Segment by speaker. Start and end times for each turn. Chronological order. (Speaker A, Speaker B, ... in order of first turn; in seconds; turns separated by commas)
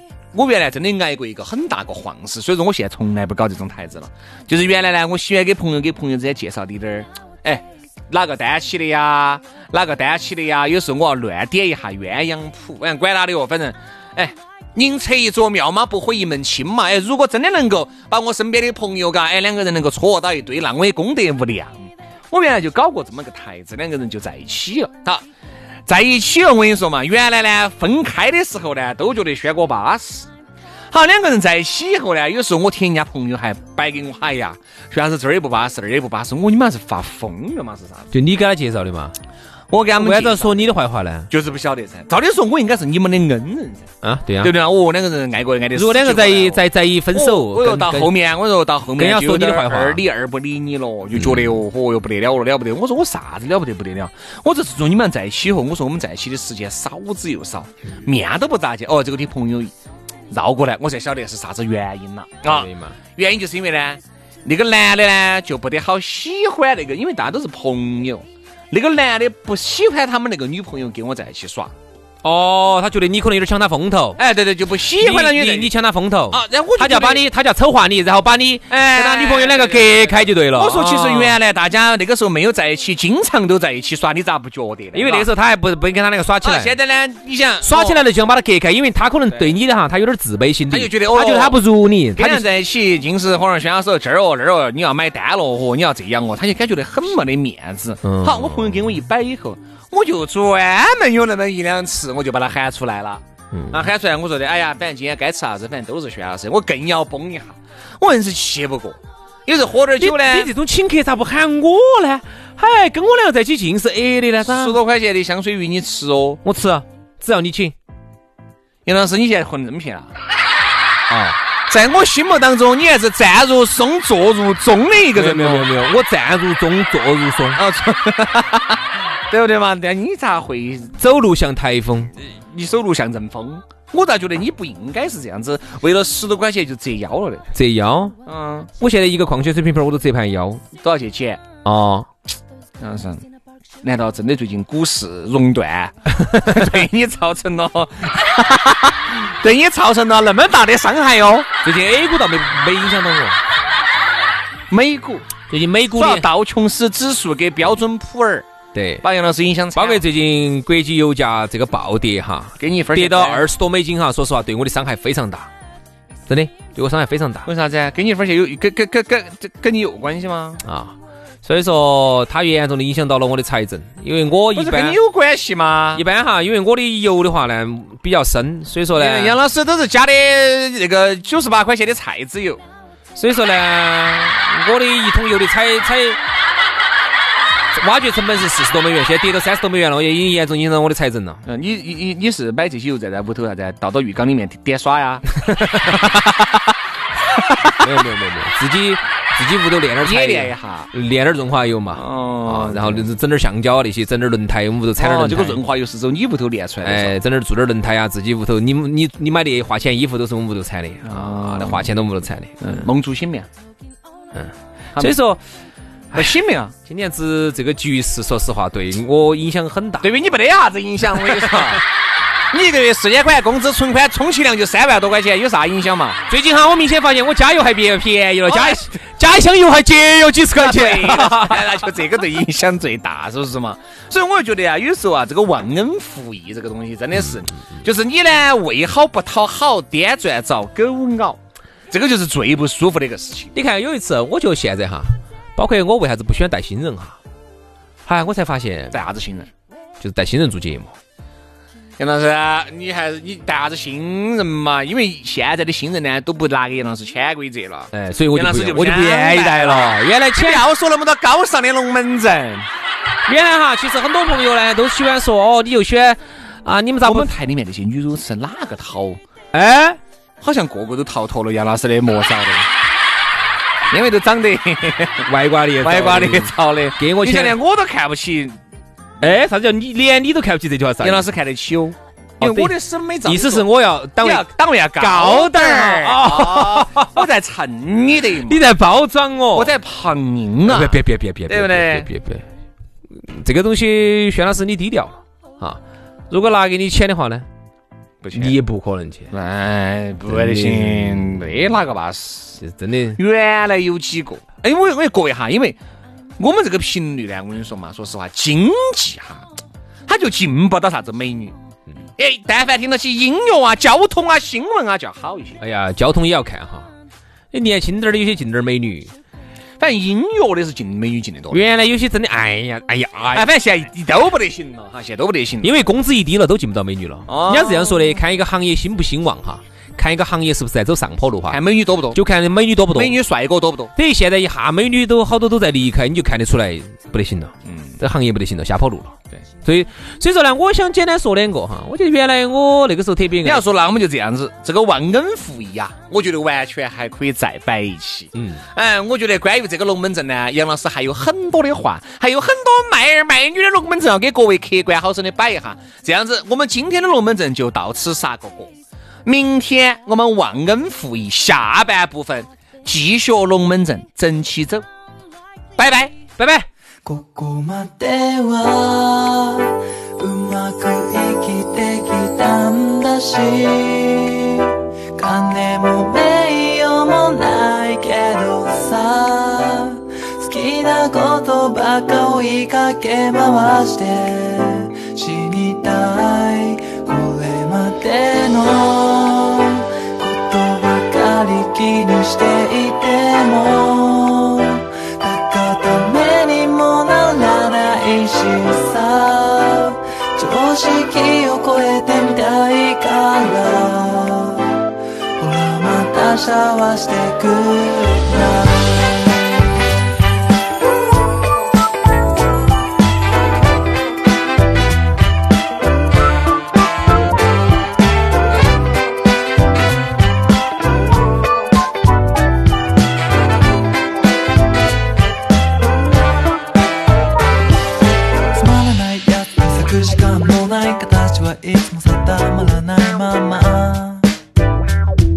Speaker A: 0.3-25.2, Speaker A: 25.9-30.3, Speaker A: 30.9-38.1, Speaker B: 38.1-39.1, Speaker A: 39.7-40.6, Speaker B: 40.0-41.3, Speaker A: 41.3-43.9, Speaker B: 44.0-44.5, Speaker A: 44.4-46.6, Speaker B: 45.7-48.1, Speaker A: 47.1-59.7, Speaker B: 49.0-50.0, Speaker B: 51.1-51.5, Speaker A: 60.3-71.7, Speaker B: 62.4-63.0, Speaker B: 72.2-74.2, Speaker A: 74.2-75.7, Speaker B: 75.0-81.4, Speaker A: 76.3-77.2, Speaker A: 78.7-85.3, Speaker B: 84.9-86.7, Speaker A: 86.4-88.0, Speaker B: 87.6-92.5, Speaker A: 90.7-91.6, Speaker A: 92.2-110.5, Speaker B: 98.0-98.8, Speaker B: 103.5-103.9, Speaker B: 110.0-114.8, Speaker A: 114.4-116.4, Speaker B: 116.4-117.7, Speaker A: 118.8-120.1, Speaker B: 121.1-121.4, Speaker A: 121.7-125.7, Speaker B: 125.1-127.6, Speaker A: 127.5-130.9, Speaker B: 131.0-132.1, Speaker A: 132.2-137.4, Speaker B: 137.5-138.1, Speaker A: 138.2-138.7, Speaker B: 138.8-140.6, Speaker A: 140.8-141.4, Speaker B: 141.6-142.1, Speaker A: 142.8-143.2, Speaker A: 143.8-151.5, Speaker B: 146.2-146.6, Speaker B: 151.6-153.4, Speaker A: 154.7-155.3, Speaker B: 155.5-156.3, Speaker A: 155.9-158.4, Speaker B: 158.7-159.0, Speaker A: 159.0-160.0, Speaker B: 159.7-165.5, Speaker A: 162.6-163.4, Speaker B: 166.3-167.5, Speaker A: 167.4-170.6, Speaker B: 170.6-175.0, Speaker A: 174.5-176.0, Speaker B: 175.9-179.4, Speaker A: 178.9-182.6, Speaker B: 183.1-186.2, Speaker B: 187.7-191.4, Speaker A: 191.4-196.3, Speaker B: 195.5-196.0, Speaker A: 197.4-197.7, Speaker B: 197.8-205.6, Speaker A: 200.0-200.9, Speaker A: 201.9-203.1, Speaker A: 205.0-207.2, Speaker B: 206.8-212.9, Speaker A: 211.0-211.9, Speaker A: 212.6-213.5, Speaker B: 214.3-215.4, Speaker A: 216.1-216.7, Speaker B: 216.8-220.1, Speaker A: 220.0-221.8, Speaker B: 221.3-221.7, Speaker A: 222.5-226.2, Speaker B: 226.3-231.8, Speaker A: 228.5-228.9, Speaker A: 230.6-241.4, Speaker A: 241.9-243.5, Speaker B: 243.5-247.2, Speaker B: 248.1-249.0, Speaker A: 248.9-249.5, Speaker B: 250.0-250.9, Speaker A: 252.0-262.7, Speaker B: 257.9-260.7, Speaker B: 263.2-267.3, Speaker A: 267.0-269.2, Speaker B: 269.5-270.0, Speaker A: 270.4-272.7, Speaker A: 273.9-275.3, Speaker B: 275.3-277.6, Speaker A: 275.8-278.6, Speaker B: 279.2-281.3, Speaker A: 281.0-283.7, Speaker B: 282.4-282.7, Speaker B: 283.2-284.5, Speaker A: 284.2-288.6, Speaker B: 285.0-287.3, Speaker B: 288.4-289.7, Speaker A: 289.5-292.1, Speaker B: 290.6-292.4, Speaker B: 293.1-297.5, Speaker A: 298.2-298.6, Speaker B: 298.3-299.3, Speaker A: 299.3-302.6, Speaker B: 300.3-301.5, Speaker B: 302.6-303.2, Speaker A: 303.2-305.8, Speaker A: 306.4-309.4, Speaker A: 310.1-311.5, Speaker A: 312.2-315.6, Speaker B: 315.6-316.9, Speaker B: 317.5-319.1, Speaker A: 319.8-321.6, Speaker B: 321.5-323.5, Speaker A: 323.3-325.8, Speaker B: 325.6-333.2, Speaker A: 327.3-328.2, Speaker A: 331.5-332.2, Speaker A: 332.9-333.9, Speaker B: 333.9-343.6, Speaker A: 337.6-338.0, Speaker A: 343.4-358.7, Speaker B: 348.3-348.6, Speaker A: 359.2-364.8, Speaker A: 365.8-366.2, Speaker B: 366.4-366.7, Speaker C: 367.0-404.9, Speaker C: 405.4-409.7, Speaker C: 428.5-434.3